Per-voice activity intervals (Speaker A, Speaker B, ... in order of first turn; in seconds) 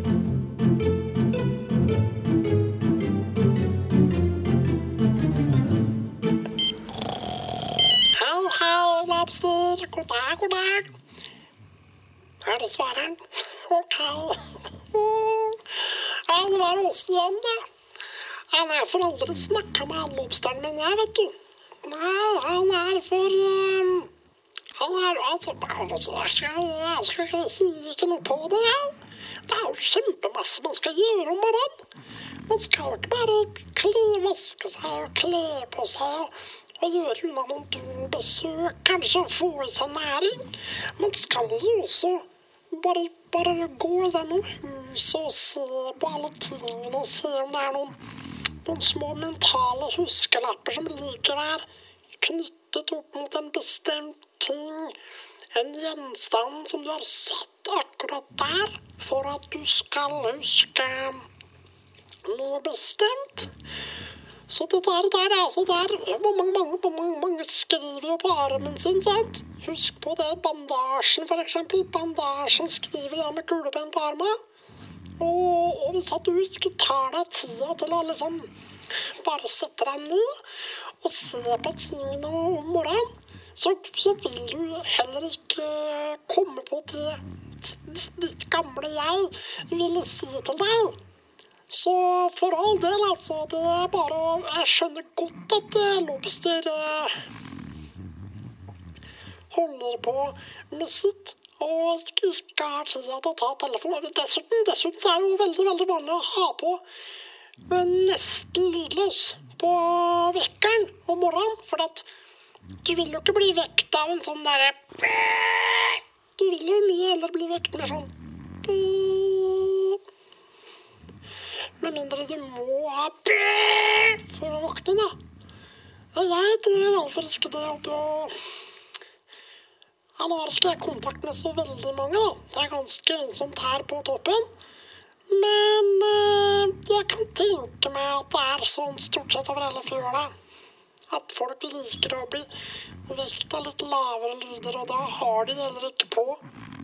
Speaker A: 8.2-10.9, 12.4-17.6, 18.5-24.1, 24.8-29.0, 29.5-31.8, 32.5-48.0, 48.6-51.7, 52.2-55.0, 55.5-61.2, 62.2-63.5, 64.5-74.4, 75.2-78.5, 79.2-80.4, 81.0-91.0, 91.7-97.2, 99.5-106.8, 107.7-112.1, 112.8-118.1, 118.6-120.0, 121.8-125.2, 126.2-128.3, 130.2-134.5, 135.3-140.3, 141.1-142.5, 143.1-146.4